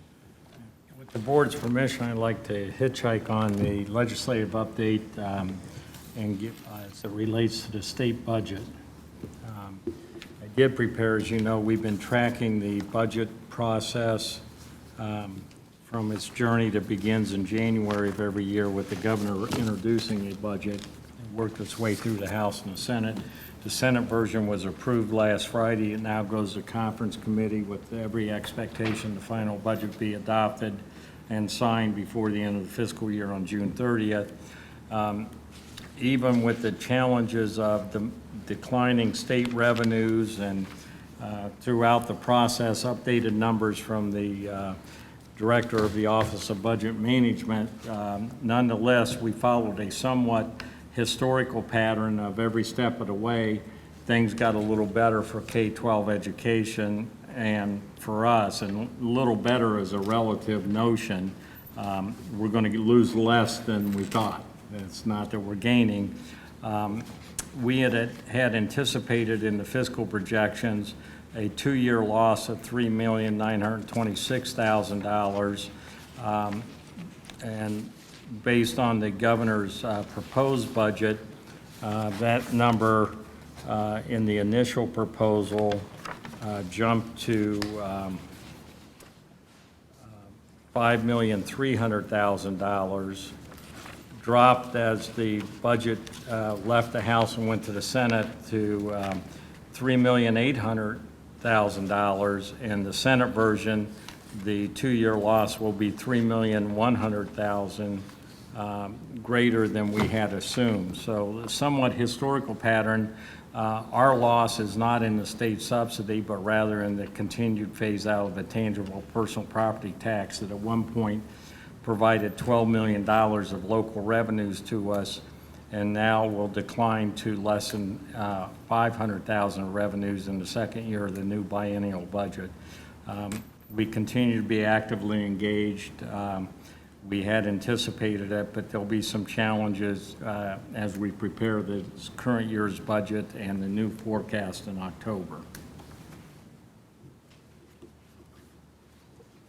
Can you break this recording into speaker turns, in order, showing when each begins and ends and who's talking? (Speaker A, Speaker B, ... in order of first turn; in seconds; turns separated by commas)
Speaker A: 0.9-5.6, Speaker A: 6.2-8.7, Speaker A: 9.4-9.8, Speaker A: 10.4-14.4, Speaker A: 15.0-34.3, Speaker A: 34.9-35.3, Speaker A: 36.0-44.8, Speaker A: 45.4-76.7, Speaker A: 77.4-81.2, Speaker A: 81.8-85.9, Speaker A: 86.4-88.2, Speaker A: 90.7-93.3, Speaker A: 94.2-121.3, Speaker A: 121.8-132.5, Speaker A: 133.1-136.5, Speaker A: 137.0-145.5